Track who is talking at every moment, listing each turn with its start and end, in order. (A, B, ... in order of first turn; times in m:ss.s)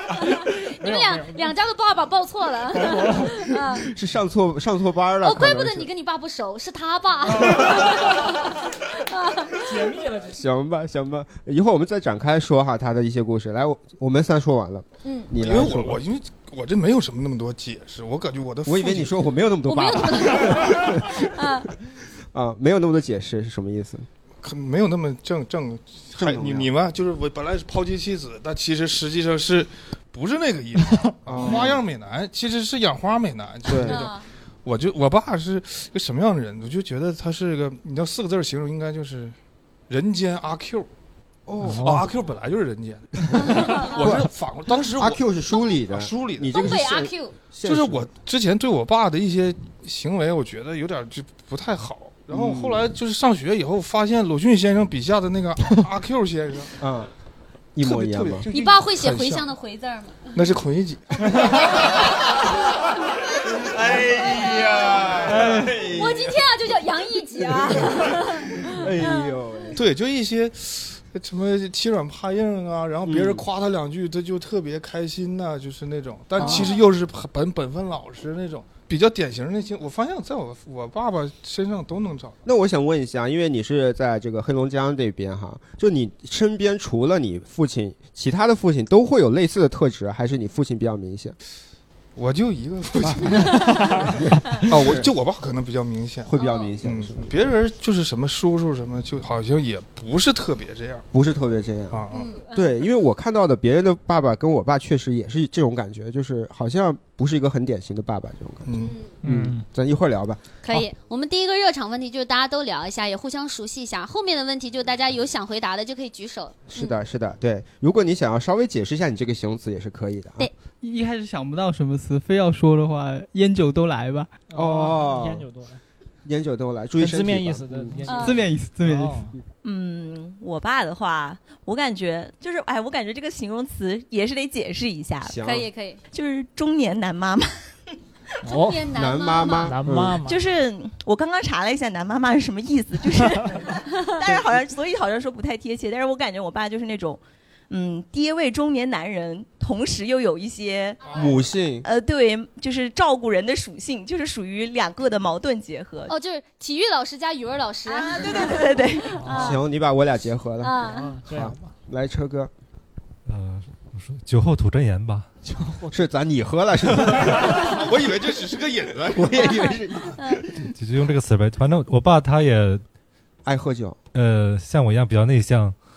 0:00.4-0:03.9 A
0:00.8-0:01.5 B
0:02.7-0:03.5 B
0:03.8-0:05.9 C
0:05.2-0:10.0 A
0:09.7-0:10.4 B
0:10.3-0:16.0 C
0:15.0-0:15.3 A
0:15.3-0:19.1 D
0:18.6-0:21.3 C
0:19.6-0:21.7 A
0:22.3-0:24.1 C
0:24.4-0:39.4 D
0:26.2-0:26.7 C
0:31.0-0:31.7 B
0:31.3-0:31.8 C
0:33.6-0:34.1 C
0:33.9-0:34.2 A
0:39.9-0:40.9 D
0:41.5-0:41.9 C
0:41.6-0:42.2 B
0:41.7-0:46.6 D
0:43.3-0:44.3 C
0:45.0-0:48.1 C
0:46.5-0:47.4 A
0:47.6-0:56.8 D
0:52.3-0:52.9 C
0:56.8-0:57.1 C
0:57.8-0:58.5 C
0:57.8-0:59.5 D
0:58.5-1:00.3 A
1:00.3-1:02.0 D
1:01.6-1:02.1 A
1:03.6-1:06.4 C
1:04.2-1:05.0 A
1:05.0-1:05.3 D
1:05.2-1:05.8 B
1:05.9-1:09.3 A
1:07.4-1:09.8 C
1:09.8-1:22.4 D
1:13.0-1:13.5 C
1:16.4-1:16.8 C
1:22.4-1:31.4 C
1:32.2-1:34.0 D
1:33.0-1:33.3 C
1:34.6-1:35.1 C
1:34.7-1:41.1 D
1:36.3-1:37.3 C
1:36.4-1:36.7 A
1:41.1-1:50.5 C
1:41.9-1:42.3 D
1:42.1-1:42.7 A
1:48.7-1:49.0 D
1:48.9-1:49.2 A
1:49.2-1:49.7 B
1:50.6-1:57.0 A
1:56.7-2:00.5 C
2:00.8-2:04.3 E
2:04.5-2:05.8 B
2:04.5-2:05.5 C
2:06.2-2:08.0 C
2:07.0-2:09.4 B
2:08.0-2:08.4 A
2:08.1-2:09.2 E
2:09.6-2:15.4 F
2:15.2-2:15.7 C
2:15.4-2:16.0 A
2:16.1-2:17.5 F
2:18.4-2:19.8 A
2:18.4-2:20.4 B
2:18.9-2:20.2 C
2:20.2-2:23.5 F
2:24.2-2:31.1 F
2:31.1-2:31.9 C
2:31.8-2:36.1 F
2:36.1-2:39.6 A
2:37.9-2:39.1 F
2:39.1-2:39.6 B
2:39.2-2:42.5 C
2:40.6-2:41.2 A
2:40.8-2:41.7 B
2:43.3-2:45.3 G
2:45.4-2:46.0 B
2:45.9-2:47.9 C
2:47.6-2:49.5 D
2:49.1-2:50.4 C
2:50.2-2:50.4 A
2:50.8-2:52.8 G
2:53.4-2:54.0 C
2:54.1-2:55.8 G